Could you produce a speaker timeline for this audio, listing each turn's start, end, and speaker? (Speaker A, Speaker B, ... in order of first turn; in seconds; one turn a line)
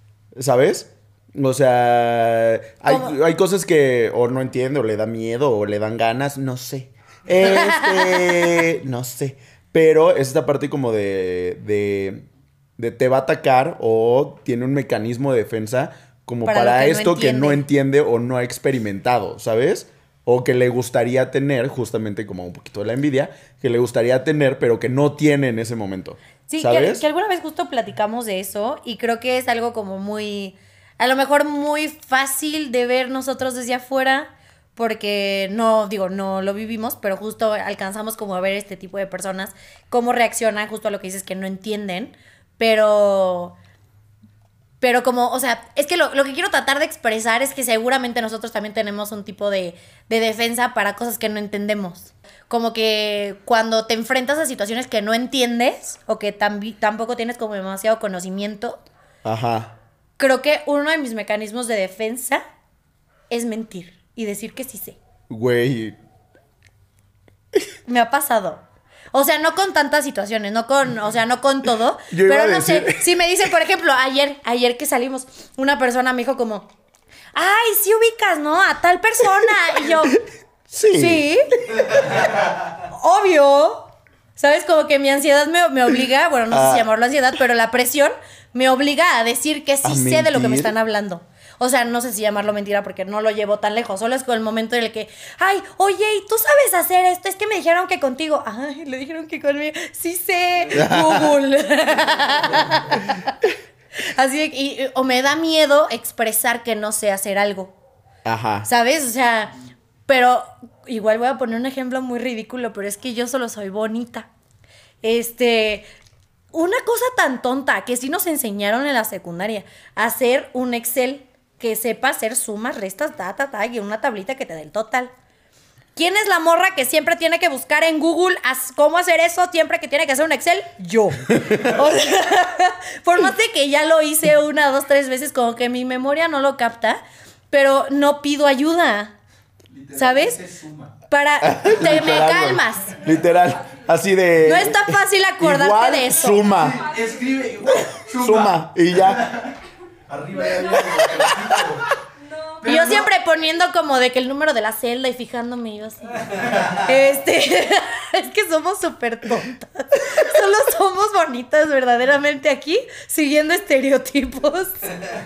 Speaker A: 0.3-27.0
Speaker B: 2.9-3.2
Speaker B: 7.4-8.6
Speaker B: 16.5-17.6
Speaker B: 26.5-43.6
Speaker B: 44.8-58.8
Speaker A: 59.2-59.7
Speaker B: 60.2-62.4
Speaker B: 63.3-65.0
Speaker A: 65.3-66.0
Speaker B: 67.9-76.7
Speaker A: 72.1-73.1
Speaker B: 77.3-80.2
Speaker A: 79.9-80.2
Speaker A: 80.7-82.0
Speaker B: 80.9-81.5
Speaker B: 82.8-103.3
Speaker A: 86.5-86.9
Speaker A: 89.8-90.7
Speaker A: 100.7-101.4
Speaker B: 104.0-107.8
Speaker A: 108.2-108.7
Speaker B: 108.7-109.5
Speaker B: 110.1-114.3
Speaker B: 115.0-115.9
Speaker B: 116.5-125.1
Speaker B: 126.0-139.2
Speaker C: 139.7-140.9
Speaker B: 139.9-140.4
Speaker B: 141.1-143.0
Speaker A: 141.4-146.8
Speaker B: 144.4-146.5
Speaker C: 146.5-149.5
Speaker A: 147.7-149.3
Speaker C: 150.1-151.9
Speaker A: 150.5-151.8
Speaker B: 152.6-165.0
Speaker C: 152.6-153.1